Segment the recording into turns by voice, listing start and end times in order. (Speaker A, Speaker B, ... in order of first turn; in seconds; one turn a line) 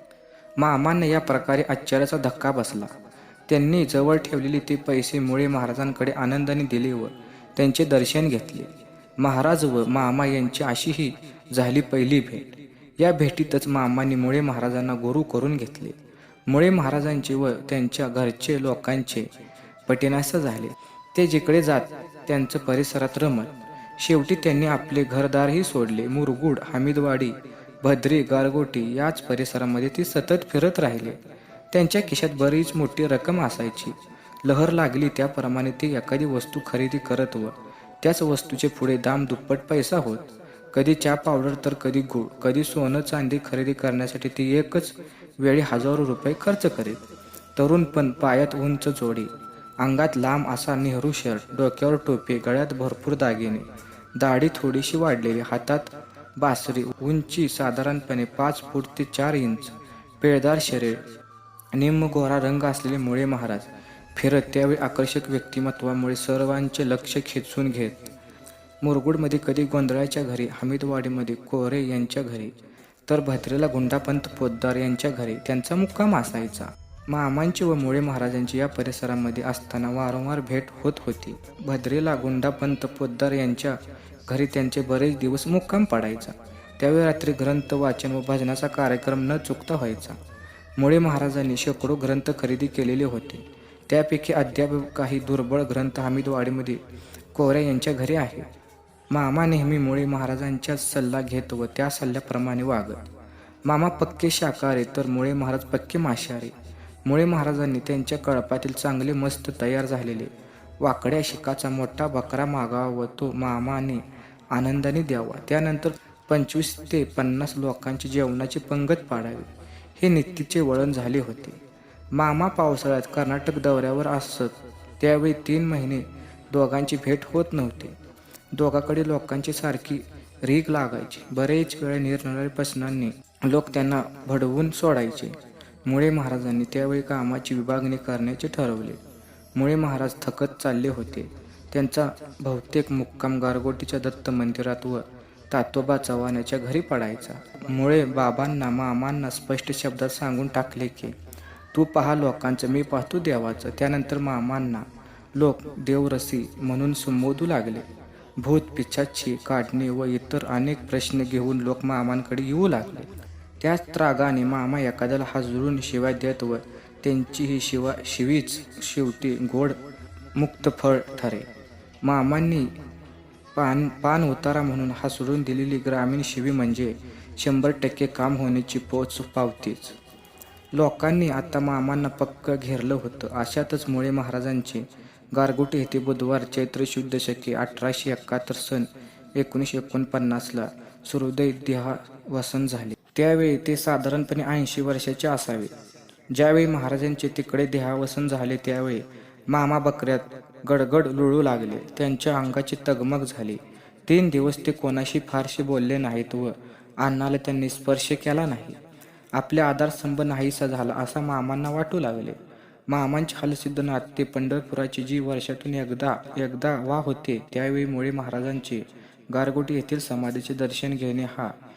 Speaker A: 0.6-2.9
Speaker A: 3.5-16.0
Speaker A: 16.5-19.3
Speaker A: 19.9-31.2
Speaker A: 31.7-47.0
Speaker A: 47.5-49.3
Speaker A: 49.8-61.0
Speaker A: 61.7-68.1
Speaker A: 68.8-72.5
Speaker A: 73.1-90.2
Speaker A: 90.8-96.8
Speaker A: 97.3-98.5
Speaker A: 99.1-103.0
Speaker A: 103.7-106.5
Speaker A: 107.0-110.3
Speaker A: 110.8-121.6
Speaker A: 122.1-128.0
Speaker A: 128.5-139.0
Speaker A: 139.6-151.2
Speaker A: 151.7-157.8
Speaker A: 158.4-163.1
Speaker A: 163.6-169.8
Speaker A: 170.3-171.5
Speaker A: 172.0-172.7
Speaker A: 173.5-179.9
Speaker A: 180.8-195.7
Speaker A: 196.3-208.8
Speaker A: 209.3-212.3
Speaker A: 212.9-221.5